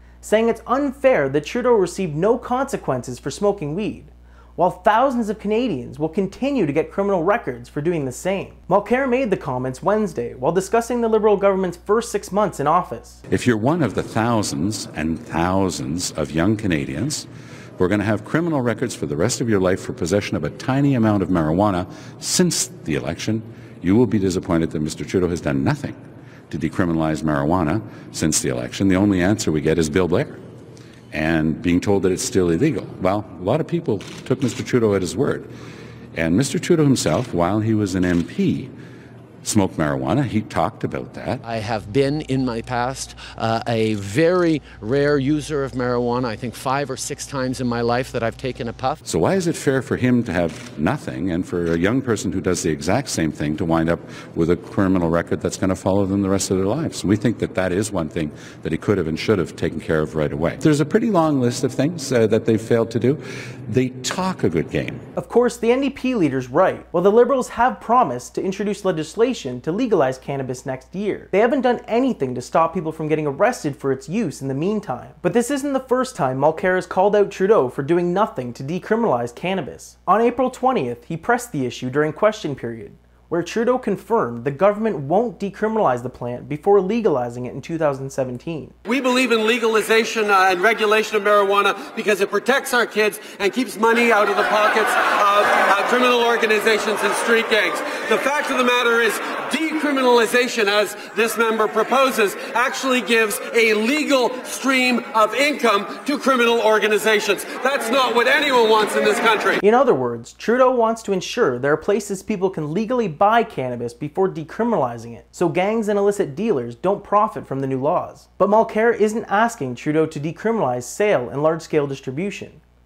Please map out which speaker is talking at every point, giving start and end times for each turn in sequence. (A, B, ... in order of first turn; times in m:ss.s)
0:00.2-0:13.2 A
0:13.3-0:26.0 B
0:26.5-0:30.4 B
0:31.1-0:35.5 B
0:36.2-0:38.7 B
0:39.4-0:41.4 B
0:41.4-0:49.0 C
0:49.0-1:05.0 B
1:05.2-1:28.7 A
1:28.8-1:49.6 D
1:49.6-2:02.6 A